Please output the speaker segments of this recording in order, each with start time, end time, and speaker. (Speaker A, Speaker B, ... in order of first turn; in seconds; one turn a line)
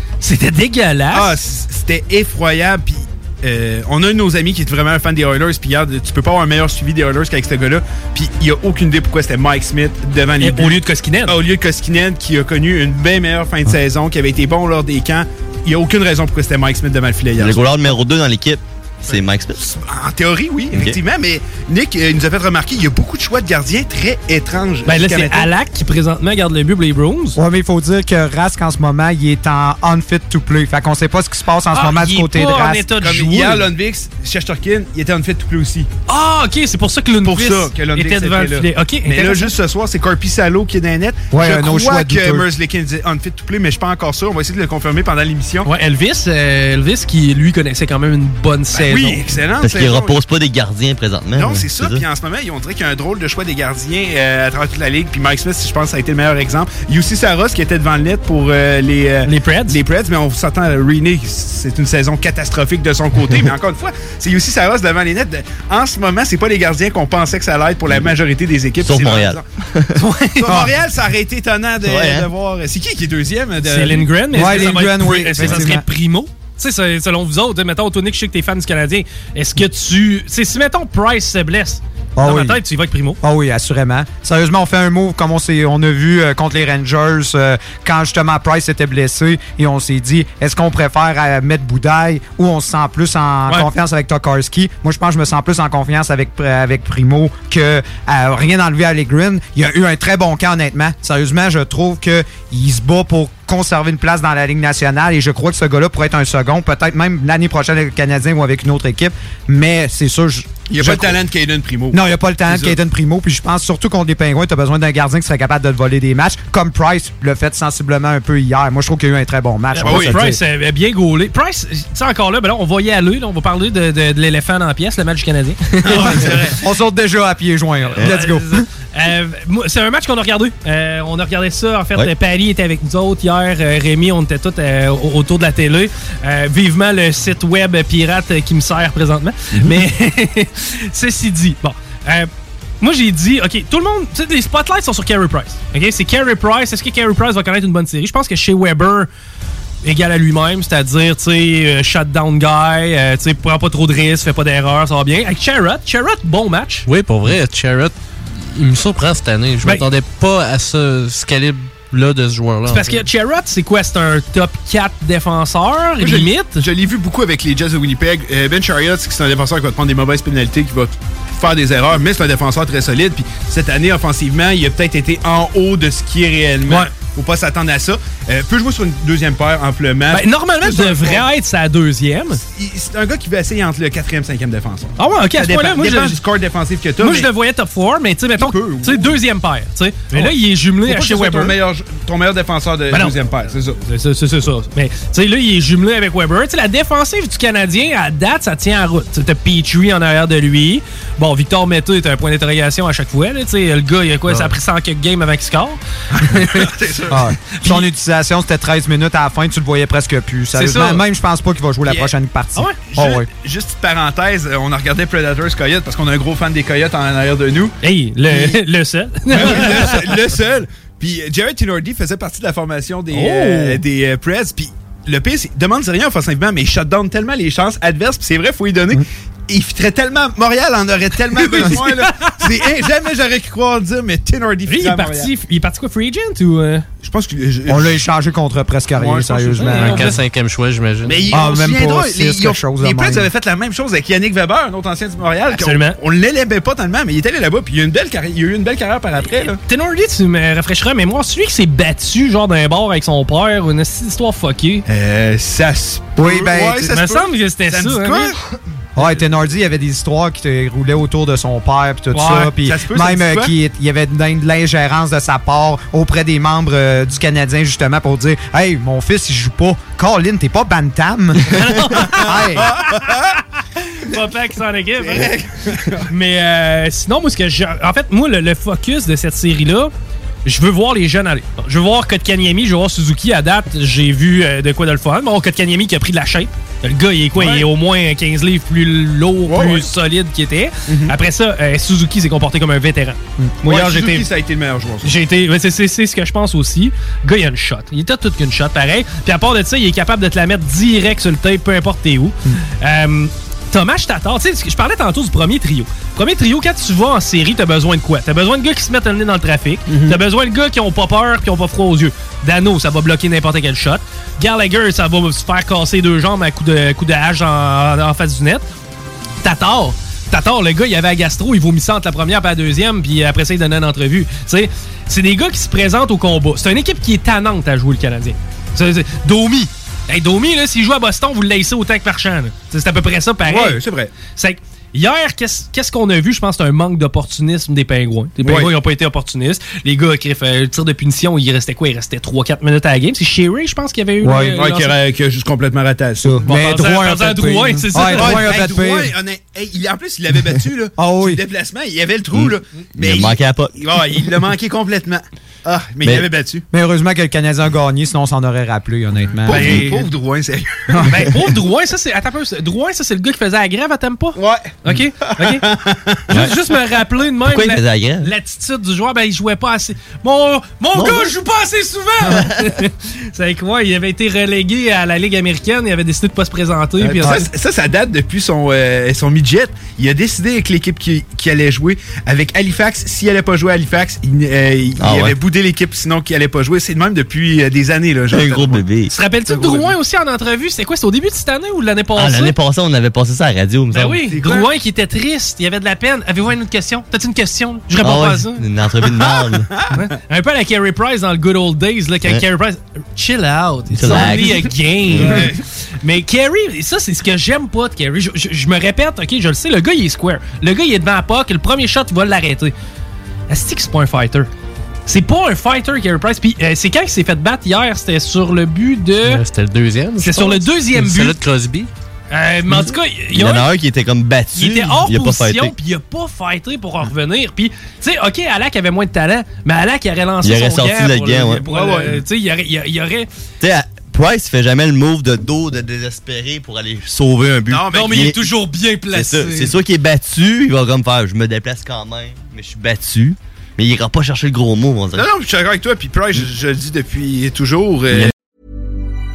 Speaker A: 0.2-1.4
Speaker B: 1.1-17.7
Speaker A: 10.4-11.3
Speaker C: 17.4-19.6
Speaker B: 19.6-25.5
Speaker C: 20.7-21.0
Speaker A: 24.8-27.4
Speaker D: 27.4-32.9
Speaker A: 31.7-33.7
Speaker B: 33.0-35.9
Speaker A: 36.1-39.5
Speaker B: 37.2-45.7
Speaker D: 41.3-42.5
Speaker A: 45.6-49.2
Speaker B: 48.7-50.2
Speaker C: 49.6-52.0
Speaker B: 51.3-69.4
Speaker A: 59.2-59.8
Speaker C: 68.8-70.0
Speaker A: 70.0-70.6
Speaker B: 70.4-74.6
Speaker C: 71.8-72.3
Speaker A: 73.6-83.2
Speaker D: 74.3-75.8
Speaker D: 82.2-82.6
Speaker D: 83.2-111.2
Speaker B: 110.7-112.8
Speaker D: 111.9-120.3
Speaker A: 119.7-126.5
Speaker B: 119.9-120.2
Speaker B: 125.9-126.5
Speaker D: 126.0-128.6
Speaker A: 127.9-142.3
Speaker A: 142.8-149.1
Speaker A: 149.8-156.8
Speaker E: 156.9-163.0
Speaker A: 162.6-166.6
Speaker B: 166.0-181.3
Speaker A: 180.1-182.4
Speaker B: 182.4-187.3
Speaker A: 185.0-186.2
Speaker A: 187.0-191.6
Speaker B: 188.4-189.2
Speaker B: 190.8-193.8
Speaker A: 192.9-205.8
Speaker A: 206.3-206.7
Speaker B: 206.3-207.5
Speaker D: 207.1-213.3
Speaker A: 210.5-211.0
Speaker B: 212.8-217.7
Speaker A: 217.8-220.1
Speaker B: 219.3-235.3
Speaker A: 223.1-223.8
Speaker A: 231.4-232.3
Speaker A: 234.7-236.8
Speaker B: 237.0-238.0
Speaker D: 237.7-240.1
Speaker B: 239.0-239.9
Speaker A: 239.6-240.2
Speaker E: 239.7-241.2
Speaker B: 241.0-249.6
Speaker D: 241.3-243.3
Speaker A: 245.5-246.0
Speaker A: 249.3-254.8
Speaker B: 254.8-258.4
Speaker D: 256.1-256.9
Speaker A: 256.8-258.3
Speaker D: 258.9-271.6
Speaker A: 262.1-262.5
Speaker B: 262.6-263.5
Speaker A: 271.5-273.4
Speaker D: 272.2-272.7
Speaker B: 272.7-273.2
Speaker A: 273.9-275.3
Speaker B: 275.0-276.1
Speaker A: 276.1-279.9
Speaker A: 280.4-294.3
Speaker B: 287.4-287.7
Speaker B: 289.5-289.9
Speaker B: 290.9-291.1
Speaker B: 293.6-295.1
Speaker A: 295.0-318.6
Speaker B: 309.9-310.2
Speaker A: 319.4-344.9
Speaker B: 333.4-334.1
Speaker B: 338.4-338.7
Speaker D: 344.2-344.6
Speaker B: 344.6-346.5
Speaker D: 346.2-349.1
Speaker A: 346.4-348.5
Speaker B: 348.2-356.6
Speaker D: 351.0-351.4
Speaker C: 352.3-353.7
Speaker D: 356.7-359.8
Speaker B: 359.4-361.3
Speaker A: 359.5-360.1
Speaker A: 361.0-365.7
Speaker B: 364.3-366.5
Speaker A: 366.3-377.4
Speaker C: 367.4-368.3
Speaker C: 370.9-371.3
Speaker C: 372.3-372.6
Speaker B: 377.0-388.8
Speaker C: 385.0-385.3
Speaker C: 388.3-389.1
Speaker A: 389.1-392.5
Speaker B: 389.5-389.9
Speaker C: 392.1-394.2
Speaker A: 393.9-398.6
Speaker B: 394.3-394.7
Speaker C: 398.0-399.7
Speaker A: 399.9-412.7
Speaker C: 403.9-405.4
Speaker B: 405.2-405.5
Speaker A: 413.5-414.5
Speaker A: 415.1-419.4
Speaker E: 419.2-421.9
Speaker A: 420.2-421.4
Speaker A: 422.3-423.7
Speaker C: 422.7-425.7
Speaker A: 424.5-433.3
Speaker C: 430.4-431.6
Speaker B: 431.7-432.2
Speaker C: 433.6-438.4
Speaker B: 437.7-438.3
Speaker A: 437.9-439.8
Speaker C: 439.1-445.3
Speaker B: 445.1-448.3